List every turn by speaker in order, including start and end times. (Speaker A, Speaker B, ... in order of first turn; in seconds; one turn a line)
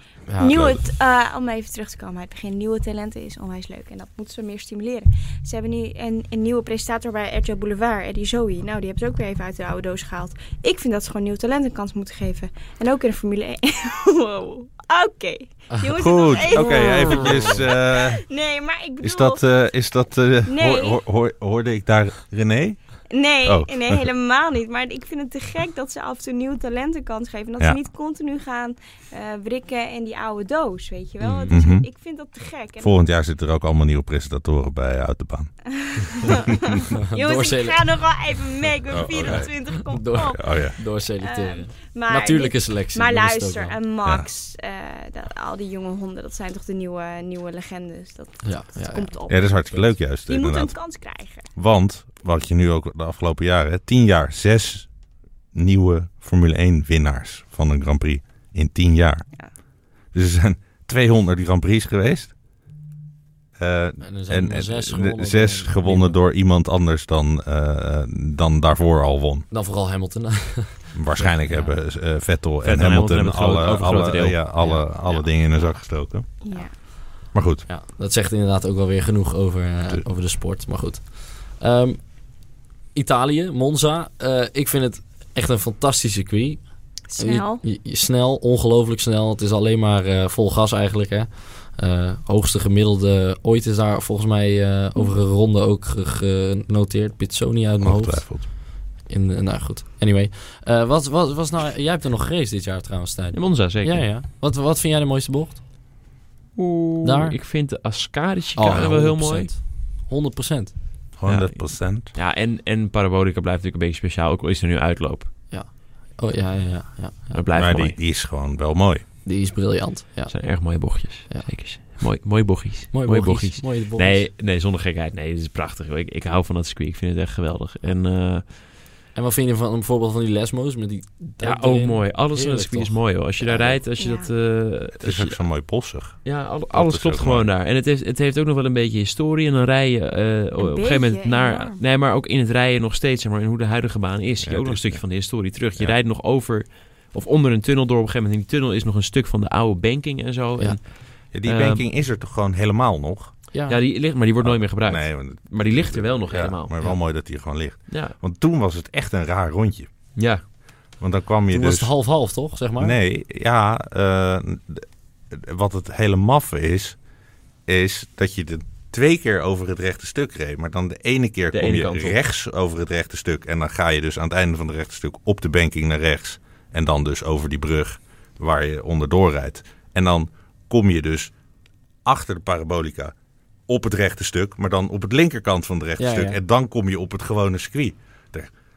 Speaker A: 0.3-0.8
Speaker B: 0.4-19.4
Speaker C: 0.5-0.8
Speaker C: 15.9-18.2
Speaker A: 16.5-17.5
Speaker C: 19.0-24.1
Speaker B: 20.5-21.0
Speaker B: 23.1-33.0
Speaker A: 31.2-31.6
Speaker C: 31.5-31.9
Speaker C: 32.8-35.5
Speaker B: 35.8-40.5
Speaker A: 37.1-38.0
Speaker C: 38.9-39.5
Speaker A: 39.2-43.8
Speaker C: 40.3-40.8
Speaker B: 41.2-51.5
Speaker A: 48.4-49.1
Speaker C: 49.3-50.8
Speaker C: 51.5-54.9
Speaker C: 55.5-59.3
Speaker C: 60.1-62.3
Speaker C: 63.6-69.5
Speaker A: 64.0-66.2
Speaker A: 69.5-71.7
Speaker C: 70.9-76.3
Speaker D: 72.6-74.5
Speaker A: 74.6-74.8
Speaker B: 76.4-76.7
Speaker C: 77.3-77.7
Speaker A: 77.7-82.3
Speaker A: 82.9-105.6
Speaker B: 87.1-87.6
Speaker C: 97.8-98.5
Speaker D: 103.3-104.0
Speaker D: 106.5-109.5
Speaker A: 107.0-107.4
Speaker A: 108.5-110.7
Speaker C: 111.2-112.1
Speaker D: 111.2-115.3
Speaker A: 115.5-117.3
Speaker D: 117.3-118.0
Speaker C: 117.6-119.0
Speaker A: 119.2-121.5
Speaker D: 120.3-128.5
Speaker A: 122.9-124.3
Speaker A: 129.1-133.8
Speaker D: 131.4-135.4
Speaker B: 134.0-134.3
Speaker C: 135.0-137.5
Speaker D: 136.2-151.8
Speaker B: 140.6-141.8
Speaker C: 144.4-145.0
Speaker C: 151.3-153.3
Speaker A: 153.5-153.8
Speaker D: 153.7-156.9
Speaker C: 154.4-159.9
Speaker D: 157.9-158.1
Speaker D: 160.1-160.4
Speaker C: 161.0-161.9
Speaker A: 161.5-163.0
Speaker C: 162.8-167.0
Speaker C: 167.7-181.3
Speaker D: 171.5-172.2
Speaker C: 182.0-183.1
Speaker C: 183.7-188.5
Speaker A: 186.0-186.4